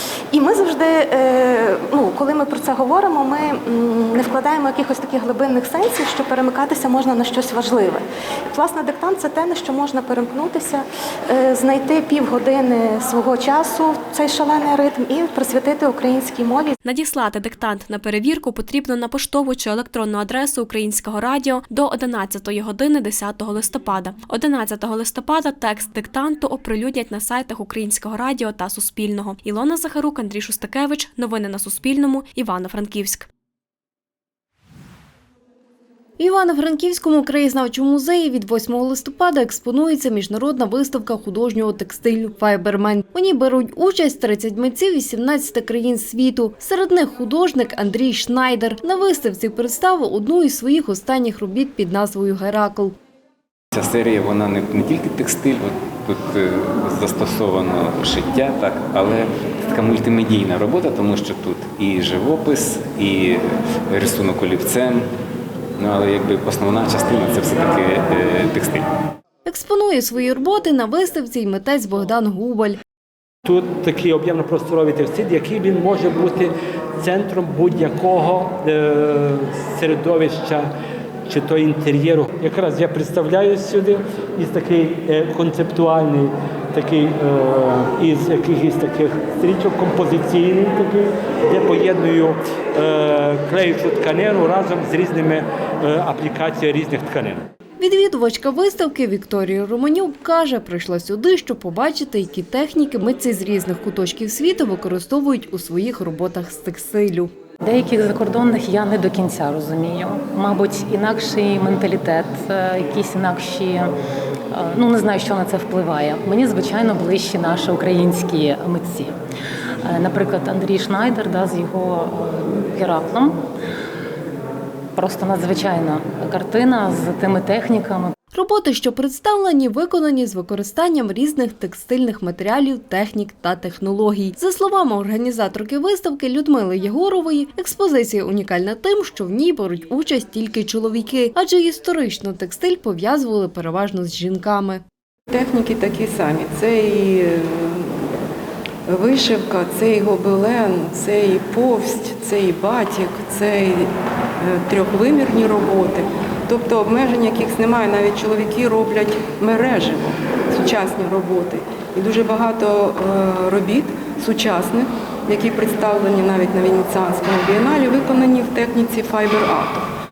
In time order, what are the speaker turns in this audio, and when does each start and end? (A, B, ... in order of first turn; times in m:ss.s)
0:00.3-0:16.7 A
0:16.8-0:33.3 B
0:36.2-0:52.9 C
0:53.7-1:05.1 D
1:05.8-1:08.8 D
1:09.4-1:12.8 C
1:13.4-1:20.7 E
1:21.3-1:37.4 E
1:37.8-1:47.3 C
1:47.6-1:53.9 F
1:54.5-1:59.2 F
1:59.8-2:03.4 F
2:04.9-2:08.1 F
2:08.3-2:24.8 C
2:25.3-2:27.9 G
2:28.9-2:33.9 G
2:34.4-2:49.8 G